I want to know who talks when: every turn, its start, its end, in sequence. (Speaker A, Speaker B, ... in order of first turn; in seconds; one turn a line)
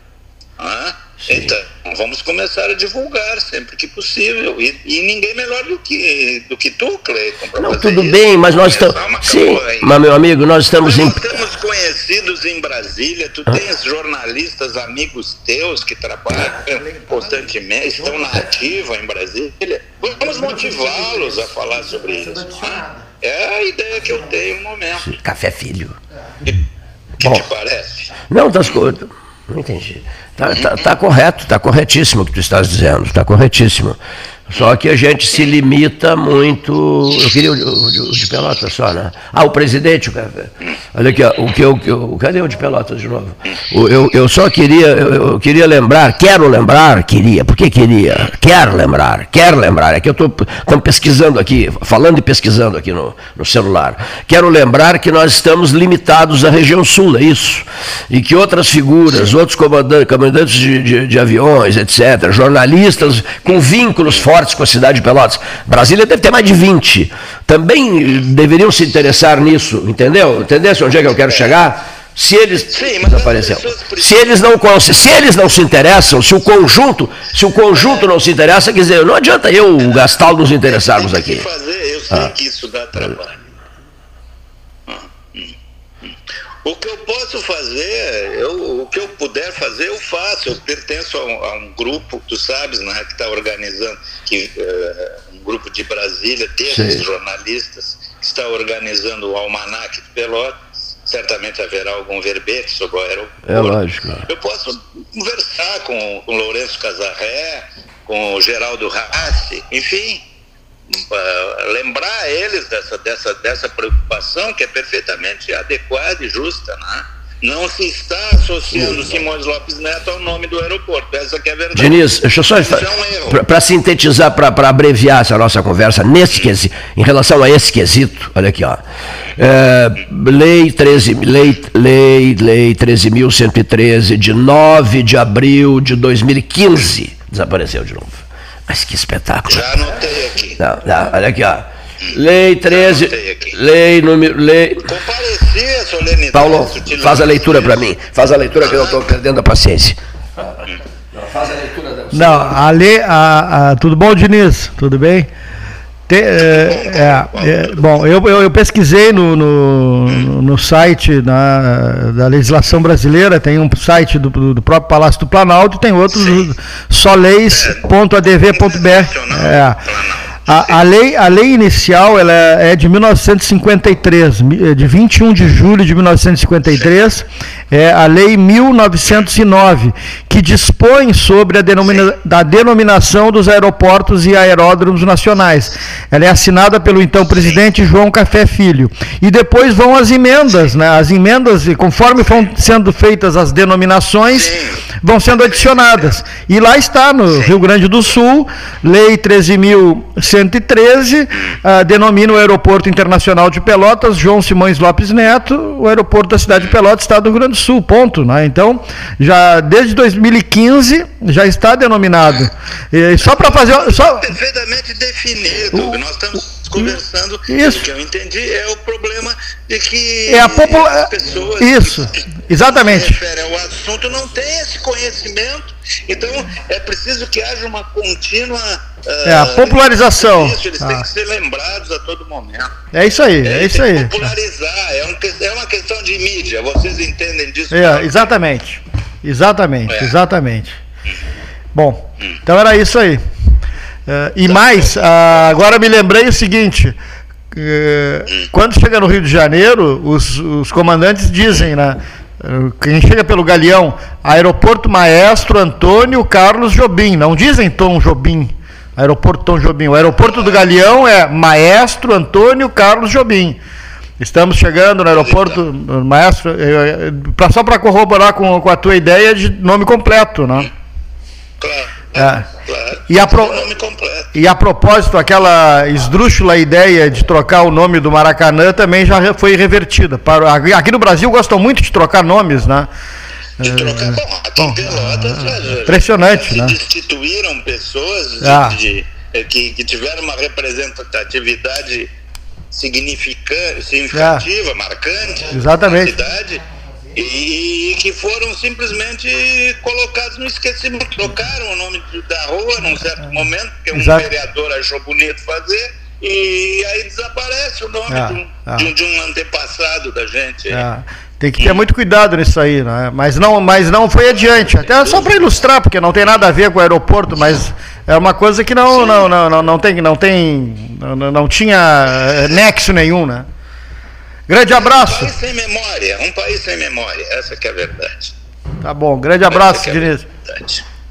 Speaker A: 0.6-9.9
Speaker B: 1.2-1.5
Speaker B: 7.6-11.3
Speaker A: 10.8-25.1
Speaker B: 25.0-26.0
Speaker A: 27.2-28.1
Speaker B: 28.3-81.5
Speaker A: 30.5-30.9
Speaker A: 71.3-71.6
Speaker A: 72.7-74.5
Speaker A: 77.7-78.0
Speaker A: 79.8-80.1
Speaker A: 80.7-83.4
Speaker A: 84.9-110.2
Speaker B: 96.7-97.0
Speaker B: 103.4-104.2
Speaker A: 110.9-123.4
Speaker B: 121.7-128.8
Speaker B: 129.3-139.7
Speaker A: 139.5-140.6
Speaker B: 140.6-144.9
Speaker A: 142.7-143.5
Speaker A: 144.8-147.9
Speaker B: 146.3-150.6
Speaker A: 148.6-149.0
Speaker B: 151.1-152.6
Speaker C: 152.1-155.3
Speaker C: 156.1-169.8
Speaker A: 156.3-158.0
Speaker A: 160.1-160.3
Speaker A: 166.1-166.5
Speaker A: 167.5-170.8
Speaker C: 170.4-214.3
Speaker A: 194.3-194.8
Speaker A: 195.3-196.2
Speaker A: 213.2-232.7
Speaker C: 217.5-217.8
Speaker C: 220.3-223.2
Speaker C: 229.2-231.1
Speaker C: 232.9-234.3
Speaker A: 233.4-238.3
Speaker C: 237.7-240.8
Speaker A: 239.9-240.2
Speaker C: 241.7-243.2
Speaker C: 244.1-247.0
Speaker A: 244.5-245.5
Speaker C: 247.5-263.6
Speaker A: 260.3-260.6
Speaker C: 264.2-270.7
Speaker A: 265.1-265.6
Speaker A: 271.6-274.3
Speaker C: 272.1-272.4
Speaker C: 273.1-273.7
Speaker C: 274.3-282.9
Speaker C: 283.6-286.8
Speaker A: 283.6-292.1
Speaker C: 288.4-288.8
Speaker A: 292.7-310.9
Speaker C: 294.1-294.4
Speaker C: 295.5-296.2
Speaker C: 303.9-304.3
Speaker C: 308.1-308.9
Speaker C: 310.7-323.5
Speaker A: 311.6-311.9
Speaker A: 314.8-315.4
Speaker A: 318.9-319.3
Speaker C: 324.5-325.3
Speaker A: 324.7-328.3
Speaker C: 328.8-330.2
Speaker A: 329.4-330.8